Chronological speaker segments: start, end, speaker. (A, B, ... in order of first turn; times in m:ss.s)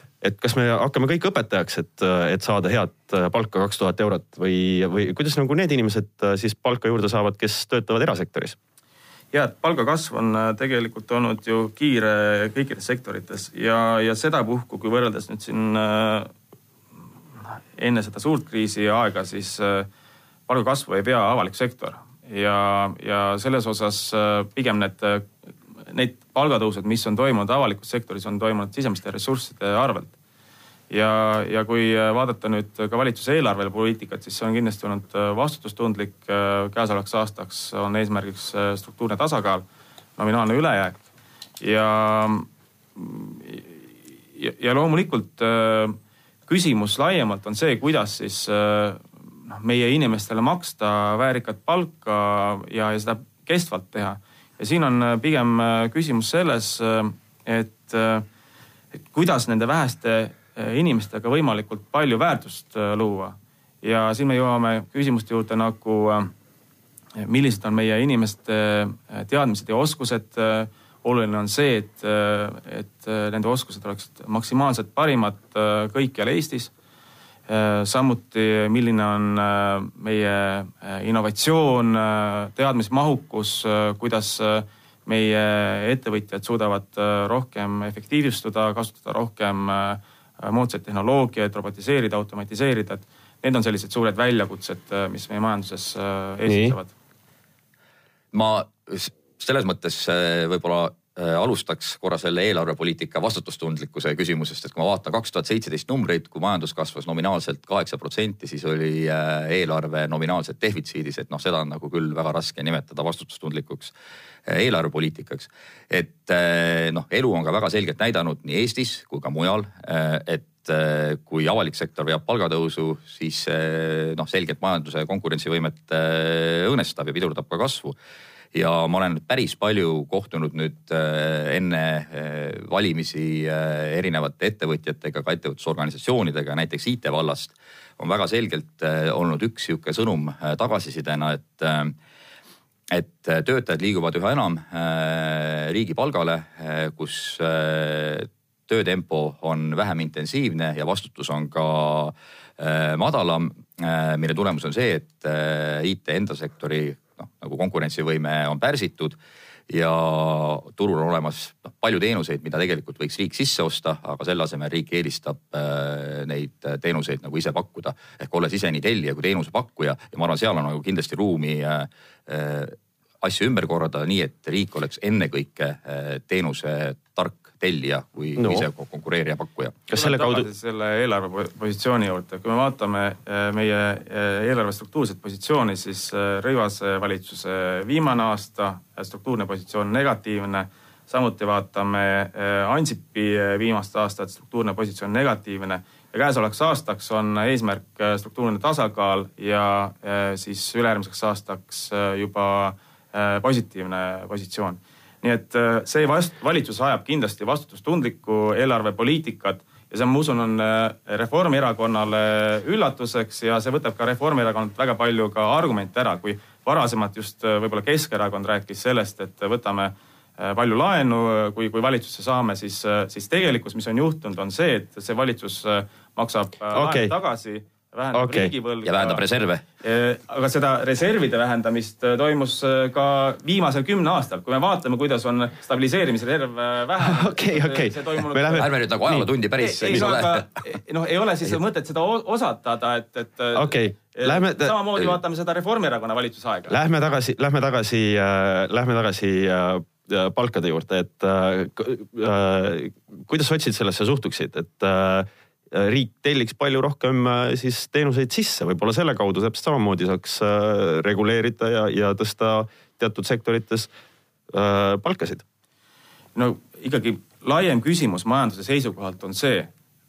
0:00.2-0:08.6 A
0:09.3-0:16.3 B
0:17.8-0:19.9 B
0:20.5-0:25.3 B
0:25.9-0:30.1 B
0:30.9-0:39.6 B
0:40.2-0:41.0 B
0:41.6-0:43.7 B
0:44.4-0:58.2 B
0:59.1-1:06.3 B
1:07.2-1:16.7 B
1:17.5-1:36.9 B
1:36.5-1:36.8 A
1:38.3-1:53.9 C
1:54.5-2:07.9 C
2:08.5-2:21.9 C
2:22.9-2:39.2 C
2:39.7-2:59.8 C
2:58.4-2:58.7 A
2:59.9-3:00.5 A
2:59.9-3:49.2 B
3:46.7-3:47.1 A
3:48.1-3:48.5 A
3:48.8-3:49.6 C
3:49.8-3:58.7 B
3:57.0-3:59.3 A
3:58.6-4:00.5 C
3:59.6-4:06.8 B
4:03.5-4:04.8 A
4:06.7-4:23.9 A
4:24.5-4:25.4 A
4:26.3-4:29.7 B